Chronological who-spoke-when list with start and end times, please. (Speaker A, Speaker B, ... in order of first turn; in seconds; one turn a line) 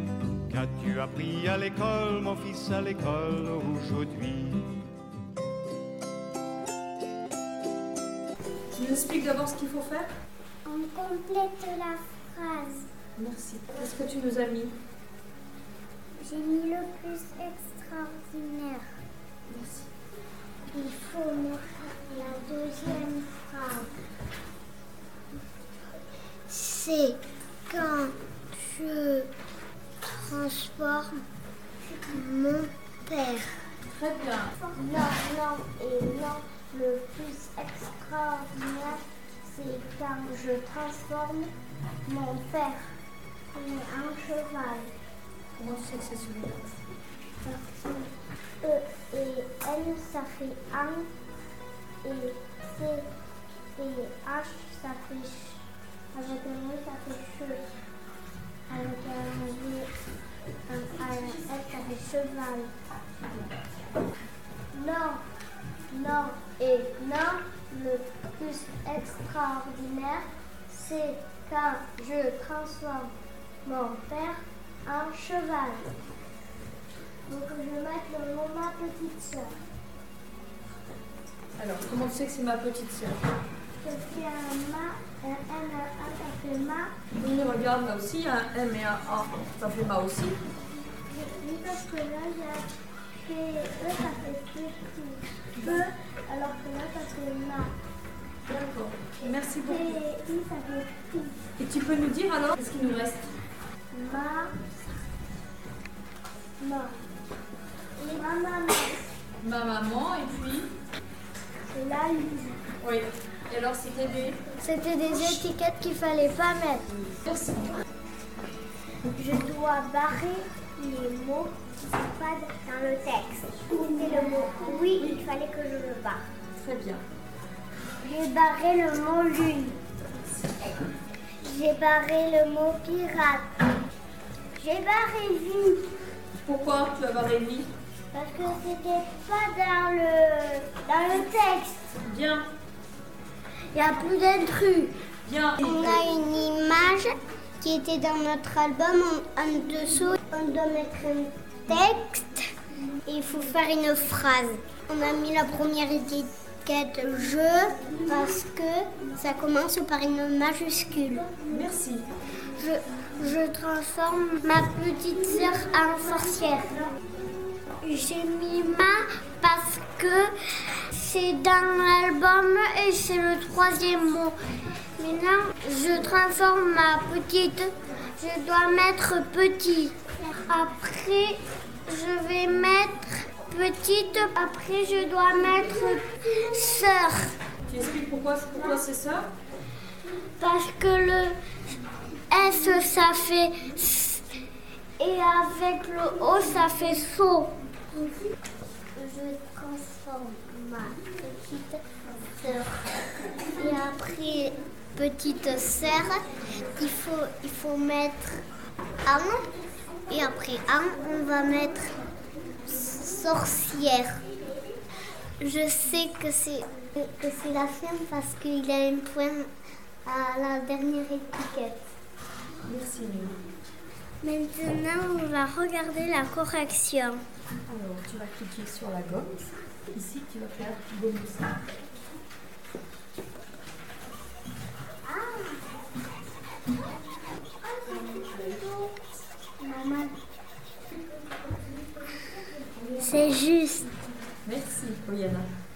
Speaker A: 0.5-4.8
Speaker B: 8.7-10.1
Speaker C: 10.6-12.9
Speaker B: 13.2-14.7
Speaker C: 16.2-18.8
Speaker B: 19.5-19.9
Speaker C: 20.7-23.9
Speaker C: 26.5-29.3
Speaker C: 30.0-31.2
Speaker C: 31.9-33.6
Speaker B: 33.9-34.6
Speaker C: 34.6-41.5
Speaker C: 42.0-42.9
Speaker C: 43.5-44.9
Speaker B: 45.5-46.8
Speaker C: 47.4-51.1
Speaker C: 52.0-53.1
Speaker C: 53.8-57.7
Speaker C: 58.7-59.9
Speaker C: 60.7-62.7
Speaker C: 64.7-65.2
Speaker C: 65.9-75.9
Speaker C: 77.3-79.5
Speaker B: 81.6-83.2
Speaker C: 83.8-86.9
Speaker B: 87.2-90.4
Speaker C: 91.1-97.7
Speaker B: 95.6-95.8
Speaker B: 98.5-100.0
Speaker C: 99.6-101.4
Speaker B: 101.6-103.3
Speaker C: 103.9-105.1
Speaker C: 106.6-106.9
Speaker C: 108.0-109.0
Speaker B: 109.4-110.7
Speaker C: 111.7-112.6
Speaker B: 112.8-114.4
Speaker C: 114.6-116.9
Speaker B: 117.0-117.8
Speaker C: 119.1-126.2
Speaker B: 126.5-127.0
Speaker C: 128.0-129.8
Speaker C: 131.4-133.5
Speaker C: 134.6-135.9
Speaker B: 136.4-137.7
Speaker C: 138.1-141.9
Speaker B: 142.0-142.5
Speaker C: 143.7-145.0
Speaker B: 145.2-145.8
Speaker C: 145.6-152.5
Speaker C: 153.0-161.3
Speaker B: 161.4-162.1
Speaker C: 162.5-166.9
Speaker C: 167.8-174.3
Speaker C: 175.0-187.3
Speaker B: 187.7-189.3
Speaker C: 190.4-191.4
Speaker C: 192.3-194.3
Speaker C: 195.0-197.5
Speaker C: 198.9-201.8
Speaker C: 202.4-208.4
Speaker C: 209.0-209.5
Speaker C: 210.1-211.9
Speaker C: 212.7-214.2
Speaker C: 215.4-219.5
Speaker C: 220.0-221.8
Speaker B: 222.7-223.4
Speaker C: 224.2-227.2
Speaker B: 227.7-231.6
Speaker C: 235.1-235.6
Speaker C: 237.7-238.9
Speaker B: 238.1-238.5
Speaker C: 239.6-240.1
Speaker C: 242.9-243.9
Speaker B: 244.4-245.5